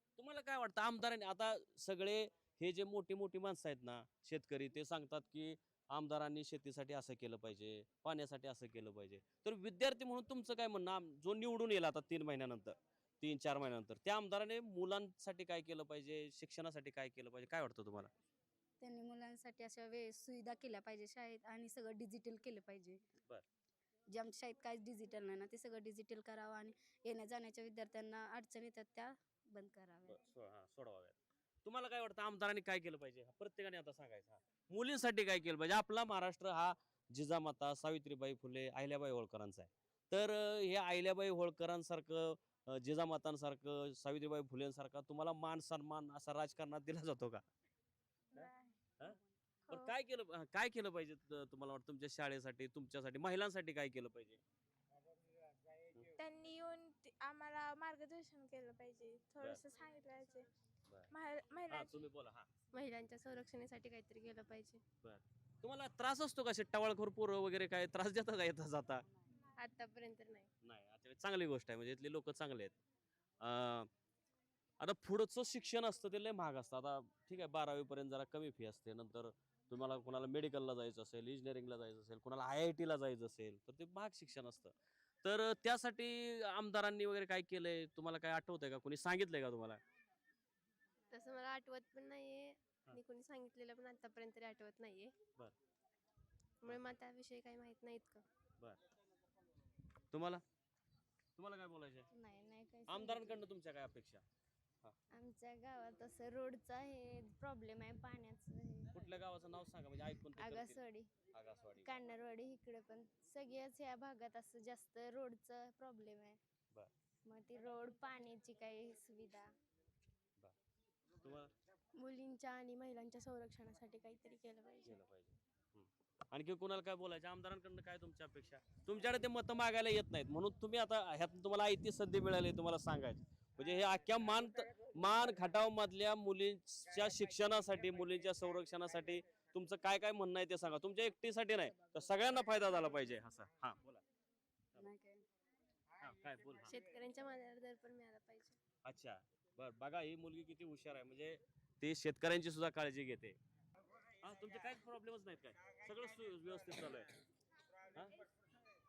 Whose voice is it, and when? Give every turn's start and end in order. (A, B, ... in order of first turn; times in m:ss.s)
0:00.2-0:18.1 A
0:18.8-0:23.0 B
0:24.1-0:30.2 B
0:30.1-0:47.4 A
0:48.3-0:48.8 C
0:48.3-0:49.2 A
0:49.7-0:54.4 A
0:56.2-1:00.5 C
1:01.1-1:02.0 C
1:01.7-1:02.5 A
1:02.7-1:04.8 D
1:05.0-1:09.0 A
1:09.6-1:10.5 D
1:10.6-1:12.8 A
1:13.4-1:13.9 A
1:14.8-1:29.8 A
1:31.1-1:35.1 D
1:36.6-1:38.2 D
1:40.1-1:40.4 A
1:41.4-1:42.1 A
1:42.1-1:43.4 E
1:42.9-1:44.2 A
1:45.1-1:49.1 E
1:48.9-1:50.8 A
1:50.4-1:51.1 E
1:51.3-1:51.9 A
1:51.8-1:56.4 E
1:57.2-1:59.5 E
2:01.2-2:01.5 A
2:01.9-2:04.9 D
2:04.8-2:24.0 A
2:24.8-2:25.2 B
2:26.0-2:26.8 A
2:26.6-2:28.6 D
2:28.8-2:33.4 A
2:34.2-2:37.1 A